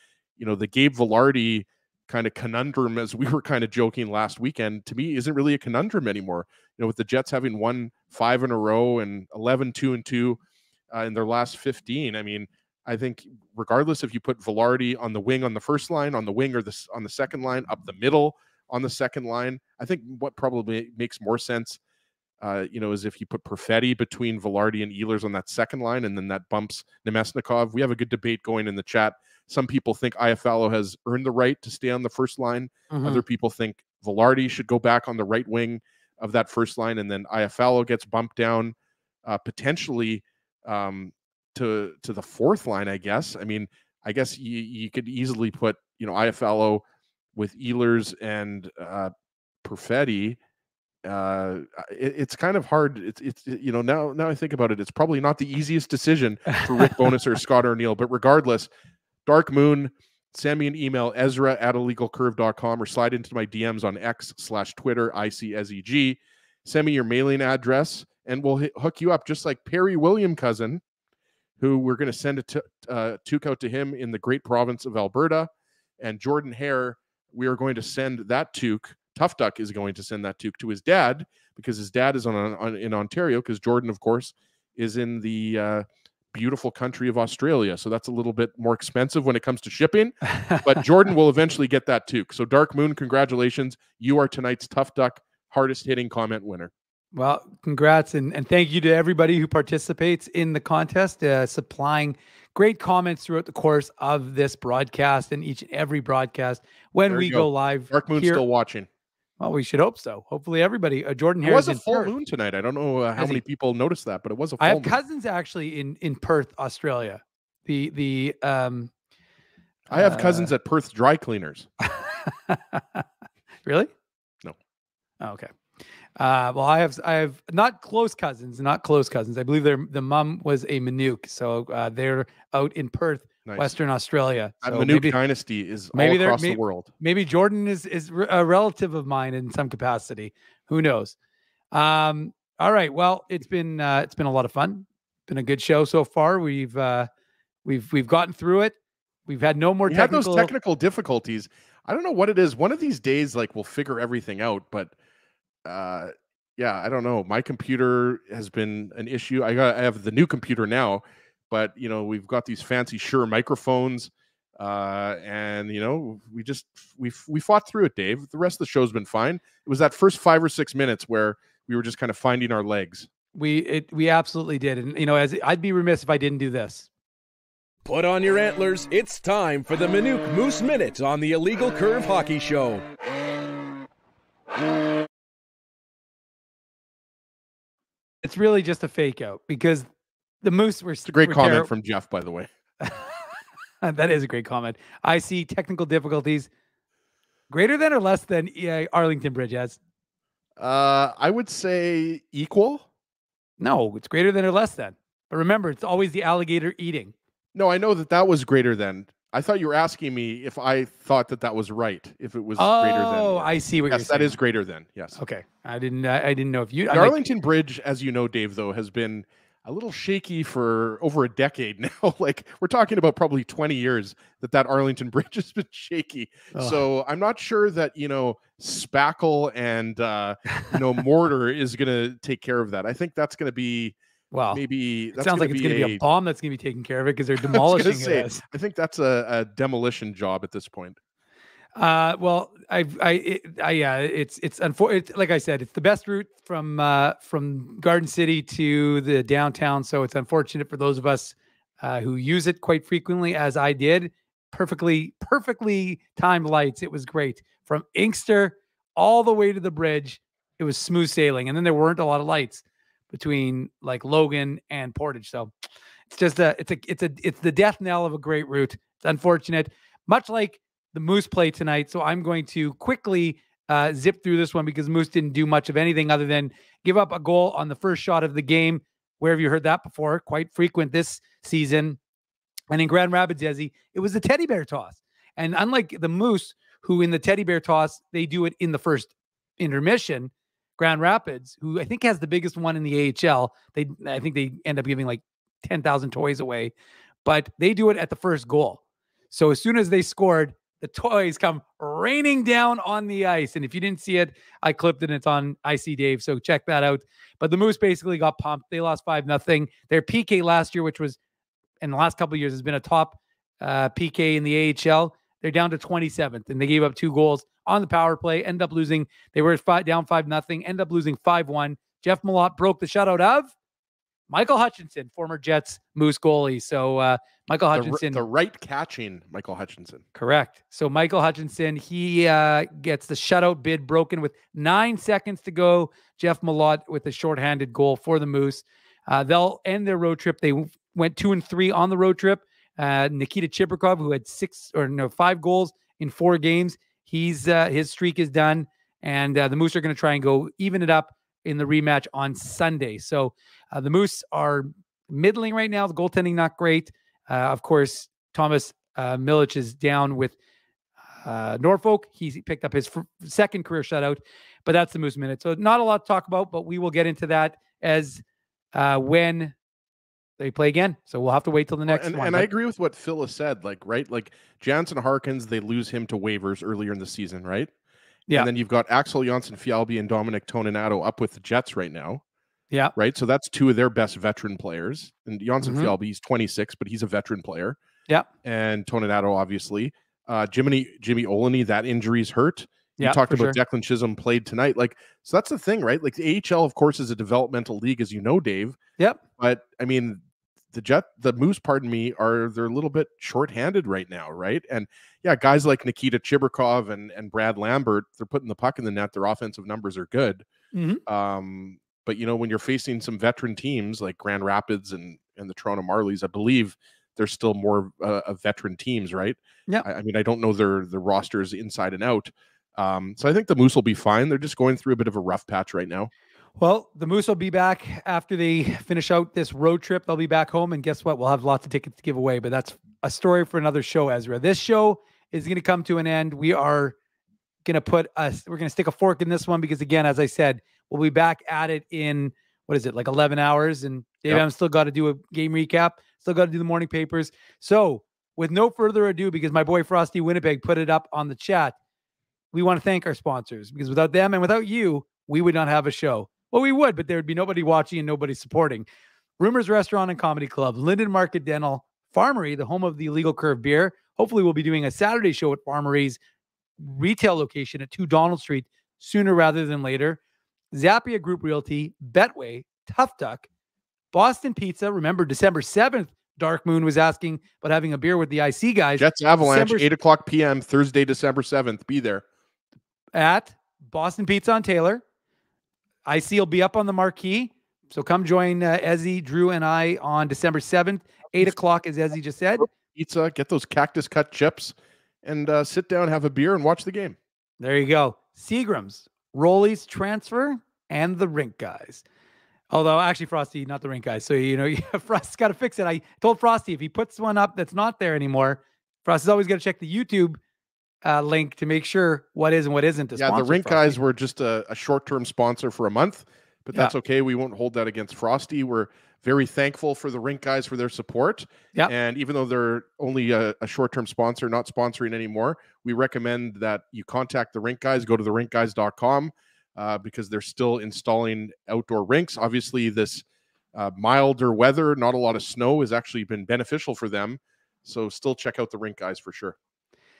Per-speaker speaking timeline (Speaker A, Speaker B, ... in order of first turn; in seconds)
Speaker A: 0.4-10.4, 10.9-21.8, 22.4-46.8, 47.3-49.1, 49.6-50.4, 51.0-58.7, 59.2-70.8, 71.6-96.7, 107.1-108.9, 111.4-115.0, 119.9-121.7, 133.4-133.7, 134.6-136.9, 149.9-154.9, 155.6-173.1, 191.1-192.5, 200.6-202.8, 207.5-215.2, 216.9-233.9, 234.5-236.0, 237.4-241.0, 327.7-330.0, 371.9-377.7, 378.3-382.2, 382.9-387.8, 388.4-398.8, 399.4-400.2, 400.7-410.4, 411.1-426.1, 479.0-482.2, 492.6-497.2, 513.1-533.2, 533.7-539.5
Speaker B: 32.9-33.2, 90.4-90.8, 97.1-108.4, 109.4-112.1, 114.6-118.9, 119.9-120.5, 121.8-123.0, 123.6-123.9, 125.2-125.5, 126.2-135.2, 135.9-141.1, 141.7-147.1, 147.6-148.8, 149.3-150.5, 173.3-176.9, 188.2-189.9, 190.4-191.7, 192.8-196.5, 197.5-199.8, 203.6-207.1, 212.6-214.4, 215.2-217.2, 226.5-226.8, 234.3-234.6, 235.1-238.4, 241.7-265.5, 266.1-282.0, 282.7-296.7, 297.2-311.2, 311.8-323.5, 324.3-328.2, 330.1-360.4, 361.2-368.2, 368.7-369.5, 370.4-372.5, 385.6-385.9, 393.0-393.6, 410.7-411.0, 426.6-436.9, 437.6-451.8, 452.5-458.9, 459.4-466.2, 466.8-470.2, 470.7-473.5, 474.1-479.9, 483.1-485.0, 486.1-492.7, 497.6-502.0, 502.7-510.4, 511.0-514.0
Speaker C: 177.8-182.9